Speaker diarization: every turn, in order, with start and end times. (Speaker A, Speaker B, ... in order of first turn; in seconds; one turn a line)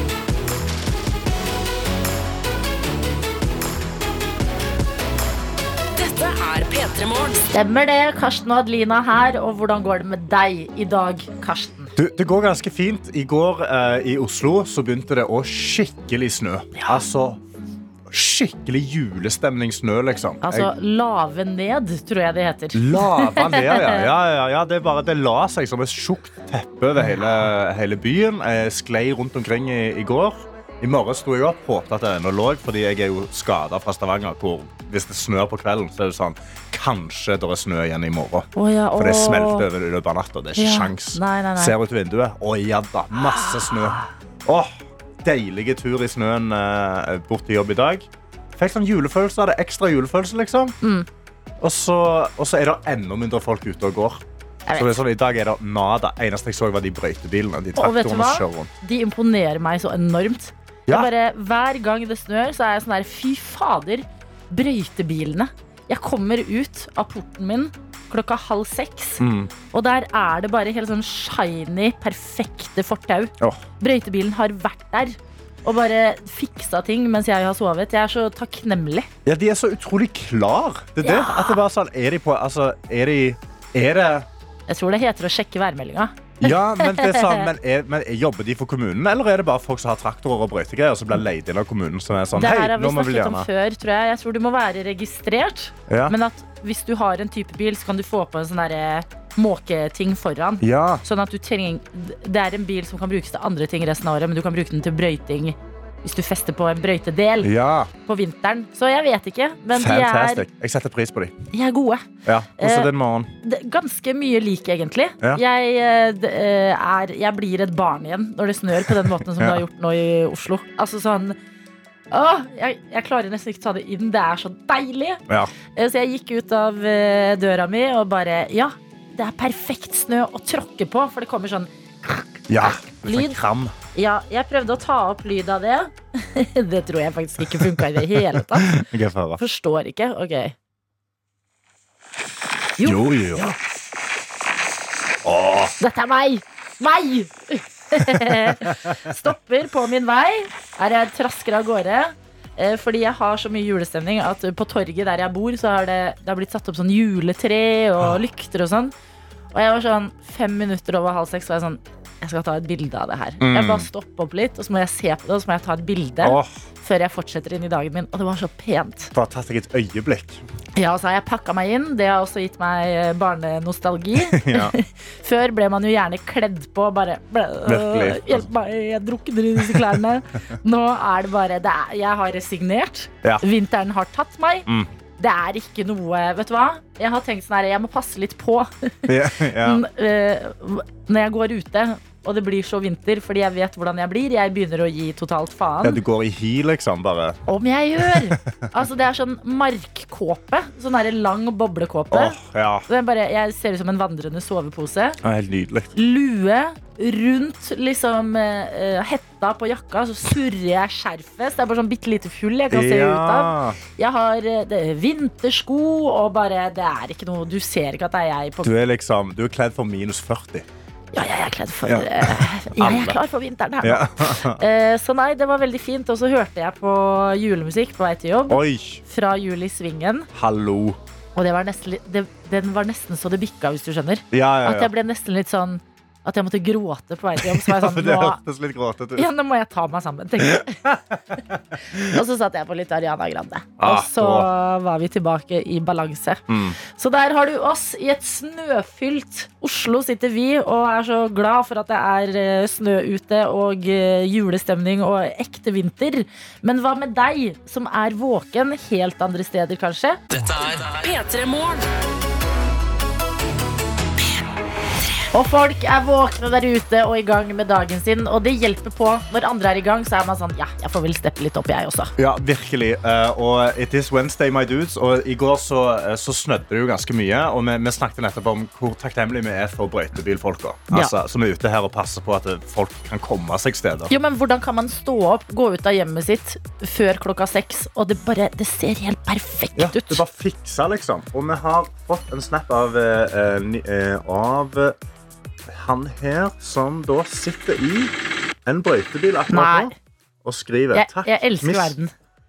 Speaker A: 6.0-7.5
Speaker B: 7.5-11.9
Speaker C: 12.0-17.4
Speaker B: 16.7-17.0
Speaker C: 18.1-20.7
Speaker B: 20.4-24.1
Speaker C: 22.7-50.7
Speaker B: 27.0-27.4
Speaker B: 38.5-39.7
Speaker B: 40.5-41.8
Speaker B: 43.2-43.7
Speaker C: 51.6-54.2
Speaker B: 54.7-55.0
Speaker C: 54.7-58.7
Speaker B: 57.8-79.1
Speaker C: 69.2-69.5
Speaker C: 79.2-84.3
Speaker B: 81.0-81.6
Speaker B: 84.7-87.5
Speaker C: 86.4-93.5
Speaker B: 92.3-107.5
Speaker C: 95.9-96.2
Speaker C: 100.6-101.0
Speaker C: 107.4-107.9
Speaker B: 108.0-110.5
Speaker C: 109.7-111.4
Speaker B: 111.5-121.4
Speaker C: 112.2-113.3
Speaker C: 118.8-119.6
Speaker B: 122.1-125.2
Speaker B: 125.8-133.4
Speaker C: 132.5-133.8
Speaker B: 133.9-138.8
Speaker C: 137.5-139.4
Speaker B: 139.4-140.6
Speaker B: 142.8-143.6
Speaker C: 142.8-143.5
Speaker C: 145.2-145.7
Speaker B: 145.8-158.9
Speaker C: 148.5-148.9
Speaker B: 159.5-169.1
Speaker C: 163.4-163.9
Speaker C: 166.2-166.6
Speaker C: 169.1-170.4
Speaker B: 170.8-196.0
Speaker C: 174.2-174.8
Speaker C: 177.7-178.5
Speaker C: 179.6-180.0
Speaker C: 189.1-189.8
Speaker C: 195.8-197.4
Speaker B: 197.5-202.4
Speaker C: 198.0-198.6
Speaker C: 202.1-202.9
Speaker B: 202.9-205.2
Speaker C: 205.2-205.9
Speaker B: 205.9-218.7
Speaker C: 212.7-213.8
Speaker C: 218.6-220.7
Speaker B: 221.1-230.3
Speaker C: 221.9-223.2
Speaker C: 223.8-224.6
Speaker C: 228.5-229.0
Speaker C: 230.3-231.0
Speaker B: 231.3-238.4
Speaker C: 234.3-234.9
Speaker C: 237.4-239.3
Speaker B: 239.2-240.8
Speaker C: 240.4-241.4
Speaker C: 241.9-242.2
Speaker B: 242.1-260.2
Speaker C: 243.8-244.5
Speaker C: 246.5-246.8
Speaker A: 260.3-261.9
Speaker B: 265.3-272.1
Speaker C: 272.2-284.1
Speaker B: 284.1-290.2
Speaker C: 289.8-295.0
Speaker C: 295.7-298.1
Speaker C: 298.6-301.9
Speaker B: 299.5-299.9
Speaker B: 300.9-302.1